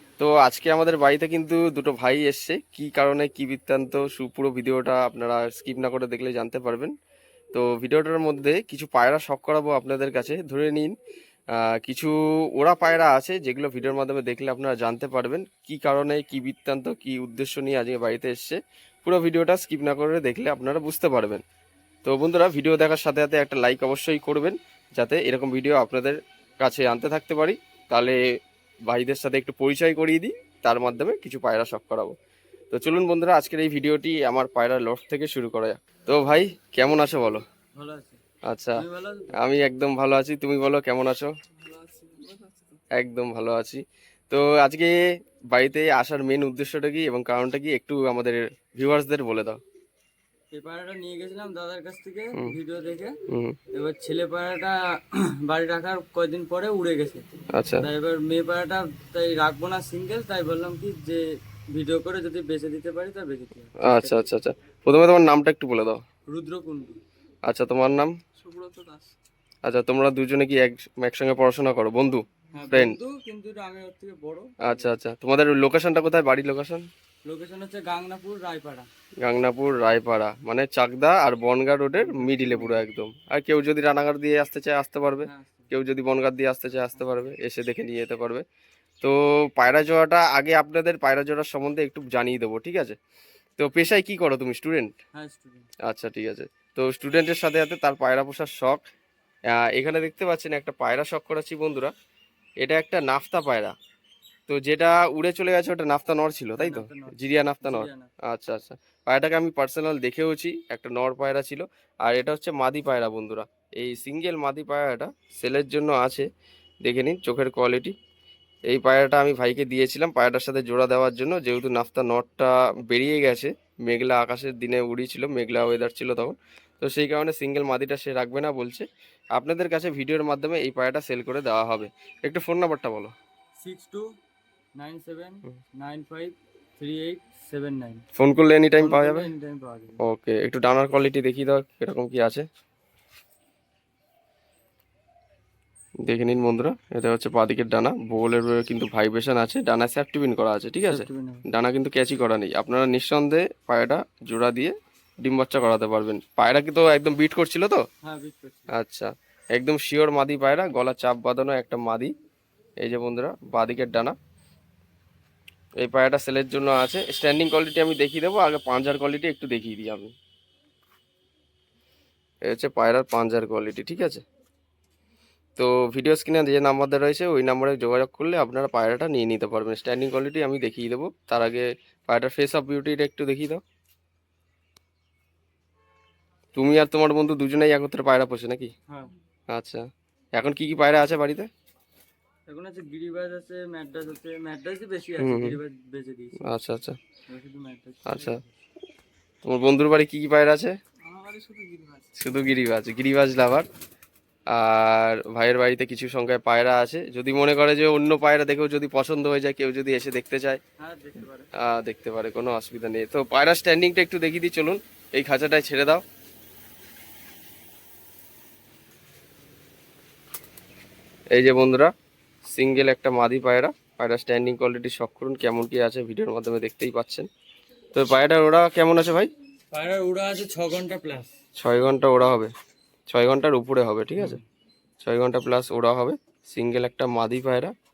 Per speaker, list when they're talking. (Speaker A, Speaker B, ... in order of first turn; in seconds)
Speaker A: 0.2-6.9, 7.5-10.9, 11.5-21.4, 22.0-28.2, 28.9-32.1, 32.7-37.4, 38.5-41.3, 42.9-45.0, 45.5-49.6, 53.3-53.6, 57.5-57.9, 63.8-66.0, 67.5-68.2, 69.7-73.0, 74.6-76.9, 79.2-88.5, 89.0-93.0, 93.6-94.9, 95.8-98.8, 99.5-101.9, 102.6-103.8, 104.5-116.3, 116.8-118.0, 118.7-133.1, 138.2-139.3, 140.0-142.5, 146.1-157.8, 158.7-162.1, 162.8-164.2, 165.8-170.1, 172.4-174.2, 175.6-183.6, 186.6-188.7, 189.5-191.5, 195.2-195.6, 196.4-197.0, 198.1-198.4, 199.4-200.8, 202.2-203.7, 204.5-210.6, 211.6-216.0, 221.3-221.9, 222.4-227.3, 227.9-229.3, 231.6-232.5, 233.1-234.4, 235.0-237.7
Speaker B: 37.8-38.2, 38.8-39.4, 41.6-42.6, 50.5-53.2, 53.7-64.3, 66.3-67.0, 68.4-69.1, 72.5-74.9, 77.2-78.9, 81.9-82.8, 85.2-85.7, 95.2-95.7, 106.6-108.1, 133.6-134.1, 134.8-138.0, 138.8-140.0, 150.9-151.5, 158.0-158.8, 192.5-196.5, 197.3-198.5, 201.0-202.2, 210.8-211.5, 229.7-231.3, 234.2-234.4